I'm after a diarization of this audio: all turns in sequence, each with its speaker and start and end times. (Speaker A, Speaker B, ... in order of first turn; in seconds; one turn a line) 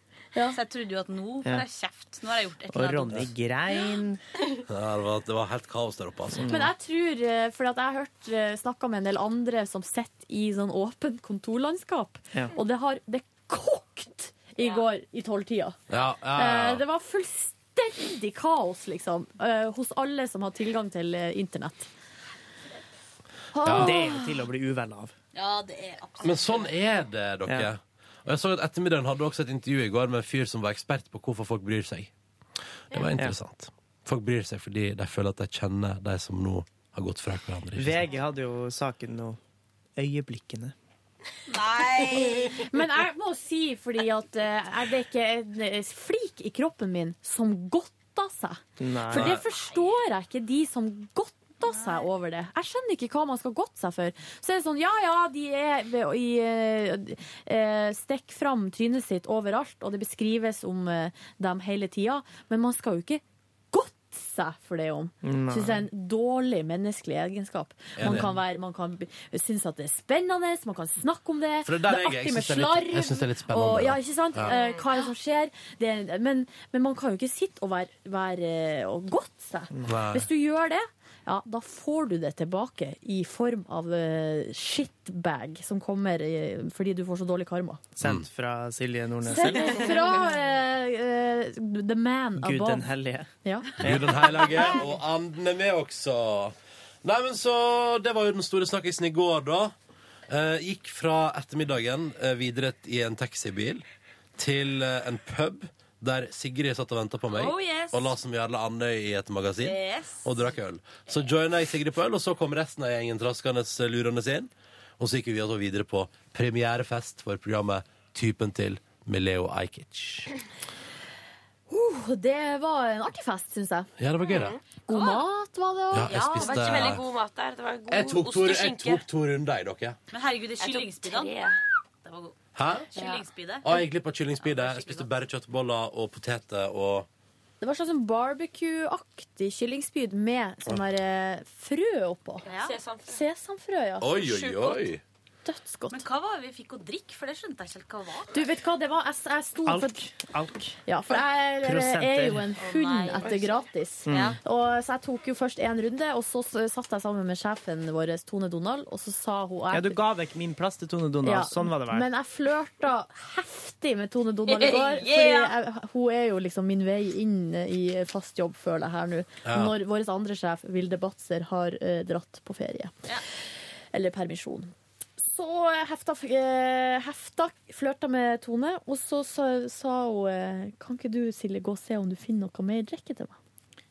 Speaker A: 0.5-3.2
Speaker B: 2.7-4.2
Speaker C: 4.7-6.5
Speaker B: 6.3-6.7
Speaker D: 6.5-15.8
Speaker C: 15.9-16.8
Speaker D: 16.3-21.9
Speaker D: 23.5-24.2
Speaker C: 23.6-24.0
Speaker B: 23.6-25.1
Speaker A: 25.3-26.7
Speaker C: 26.2-32.1
Speaker C: 32.9-38.1
Speaker B: 37.8-39.4
Speaker B: 40.0-40.7
Speaker A: 41.5-42.6
Speaker D: 42.1-87.8
Speaker B: 48.8-49.4
Speaker C: 49.1-49.4
Speaker A: 51.6-52.1
Speaker B: 65.2-65.8
Speaker C: 68.0-68.3
Speaker C: 71.6-74.5
Speaker E: 74.4-74.9
Speaker C: 79.9-80.3
Speaker B: 88.0-90.1
Speaker D: 89.2-92.9
Speaker B: 92.4-94.2
Speaker C: 93.8-99.7
Speaker C: 100.3-103.8
Speaker C: 104.4-120.3
Speaker A: 107.2-108.2
Speaker A: 109.6-110.3
Speaker D: 121.7-123.9
Speaker C: 124.0-124.5
Speaker E: 124.3-124.9
Speaker D: 124.9-126.8
Speaker A: 124.9-125.2
Speaker C: 125.9-127.0
Speaker E: 126.0-129.0
Speaker C: 127.9-130.0
Speaker A: 130.1-131.3
Speaker E: 130.6-131.6
Speaker A: 132.0-132.3
Speaker C: 132.5-132.9
Speaker A: 132.9-133.8
Speaker E: 132.9-133.2
Speaker C: 133.6-137.1
Speaker A: 134.4-135.1
Speaker D: 137.6-142.5
Speaker E: 142.4-143.2
Speaker A: 142.5-142.8
Speaker D: 143.1-144.1
Speaker C: 144.0-145.0
Speaker E: 144.2-144.8
Speaker D: 145.4-146.0
Speaker A: 145.9-148.4
Speaker D: 148.3-150.0
Speaker B: 149.7-150.8
Speaker D: 150.8-160.0
Speaker B: 151.6-152.4
Speaker A: 152.6-153.4
Speaker E: 153.2-153.6
Speaker B: 154.1-154.4
Speaker A: 154.1-154.4
Speaker B: 159.7-162.1
Speaker D: 161.2-172.9
Speaker E: 164.5-165.6
Speaker C: 169.4-169.7
Speaker D: 173.9-183.3